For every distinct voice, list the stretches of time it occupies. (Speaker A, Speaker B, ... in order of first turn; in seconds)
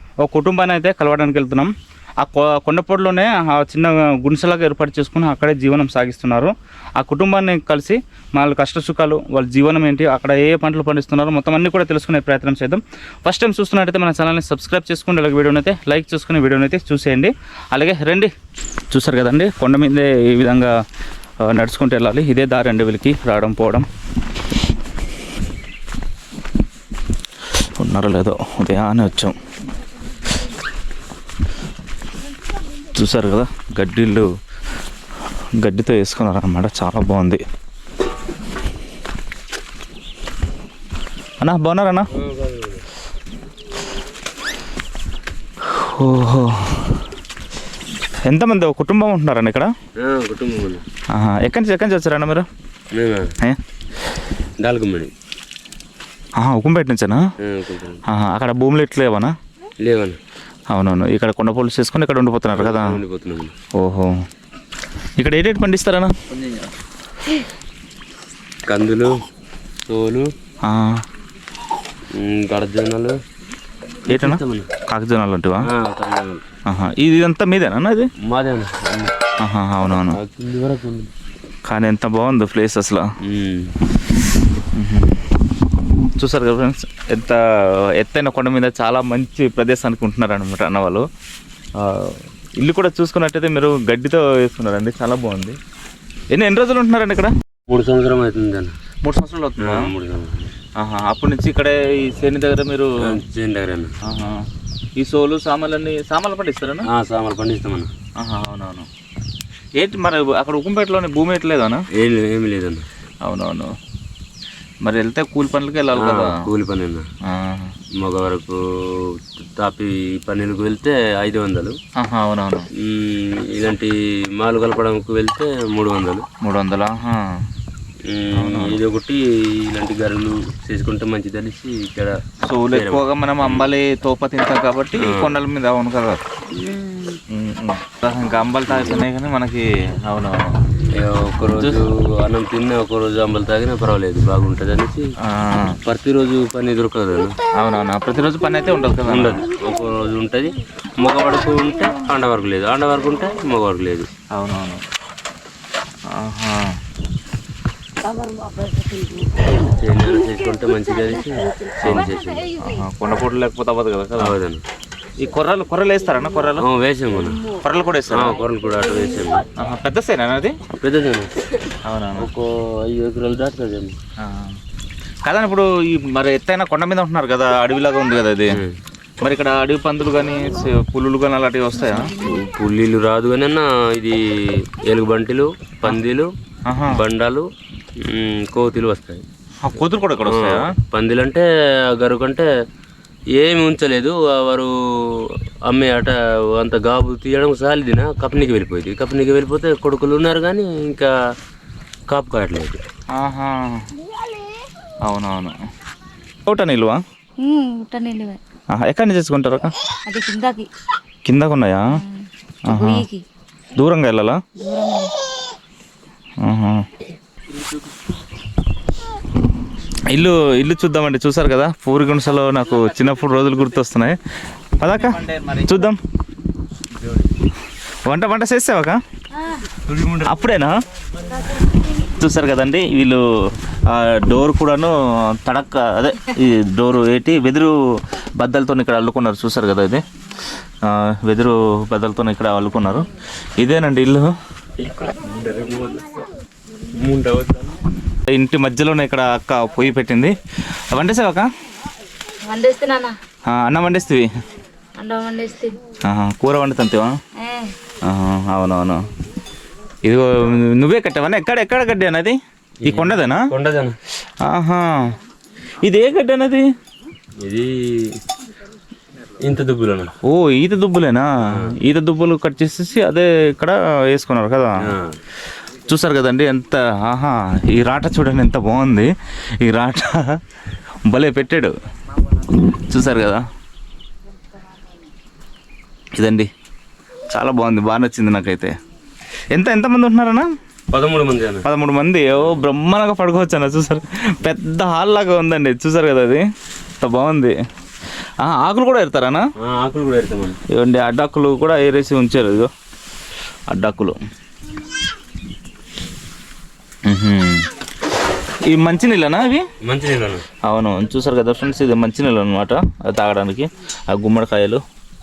Speaker A: 0.2-18.3, 18.9-20.7, 21.4-23.9, 27.8-29.3, 32.9-34.3, 35.6-37.4, 41.4-42.1, 45.7-46.9, 48.2-49.7, 51.1-52.5, 56.4-57.2, 58.1-59.3, 60.7-63.0, 63.8-64.1, 65.2-66.1, 70.6-71.0, 74.1-75.7, 76.7-78.1, 79.4-80.2, 81.7-83.0, 84.7-85.1, 86.2-87.4, 88.0-91.0, 91.8-95.6, 96.3-97.3, 99.0-99.9, 100.8-103.2, 104.0-104.4, 105.0-106.9, 108.2-108.9, 109.8-111.8, 113.2-113.7, 114.8-116.5, 117.2-117.7, 122.0-122.7, 126.4-127.4, 128.3-128.8, 132.4-136.2, 137.3-140.5, 145.2-145.8, 147.6-149.4, 154.3-154.8, 156.1-156.6, 162.6-164.3, 165.2-166.7, 167.5-168.4, 169.6-170.5, 171.8-172.3, 174.2-174.5, 175.2-178.6, 179.2-182.2, 186.7-187.0, 189.6-190.7, 203.1-203.9, 205.0-205.6, 206.5-207.0, 208.7-209.7, 211.2-211.8, 212.7-213.1, 213.7-214.4, 216.4-216.8, 220.1-224.2, 224.8-226.0, 228.0-229.0, 230.2-230.7, 232.0-233.2, 233.7-237.7, 238.4-240.0, 240.9-243.1, 243.6-244.3, 248.3-250.3, 250.9-251.4, 253.5-254.3, 256.1-257.1, 258.1-259.0, 260.0-263.5, 264.4-265.0, 265.8-266.6, 270.2-274.8, 275.9-279.1, 279.6-280.4, 281.1-281.7, 282.8-283.4, 286.1-286.5, 287.3-288.7, 289.5-290.5, 291.6-296.4, 297.0-297.5, 298.4-299.4, 300.7-302.7, 303.7-304.1, 307.1-307.6, 308.6-309.6, 310.6-314.8
Speaker B: 42.1-42.8, 50.0-50.8, 53.0-53.3, 54.6-55.1, 57.4-58.0, 59.8-60.2, 62.5-63.5, 68.7-69.1, 69.9-70.3, 72.2-73.2, 74.1-74.7, 75.6-76.4, 78.3-79.1, 80.1-81.1, 83.3-83.7, 97.7-98.7, 99.6-100.5, 103.0-103.9, 106.9-107.9, 112.0-112.8, 116.0-117.1, 118.0-121.8, 122.8-126.2, 128.1-132.2, 132.7-133.7, 135.0-135.4, 140.9-145.1, 145.8-147.4, 149.1-154.1, 159.6-162.5, 164.2-164.6, 166.6-167.4, 168.1-169.4, 170.8-171.3, 172.2-173.9, 182.2-184.2, 184.8-186.3, 186.9-187.4, 188.0-189.2, 190.3-192.5, 193.3-201.1, 202.1-202.8, 227.0-227.3, 229.7-230.5, 244.8-246.2, 246.9-247.8, 262.8-264.0, 267.4-267.8, 269.4-270.1, 274.8-275.2, 290.9-291.6, 299.6-300.6, 309.8-310.4
Speaker C: 207.4-208.4, 210.1-210.7, 212.0-213.2, 214.6-215.1, 229.3-229.6, 252.4-253.2, 255.0-255.8, 257.4-257.7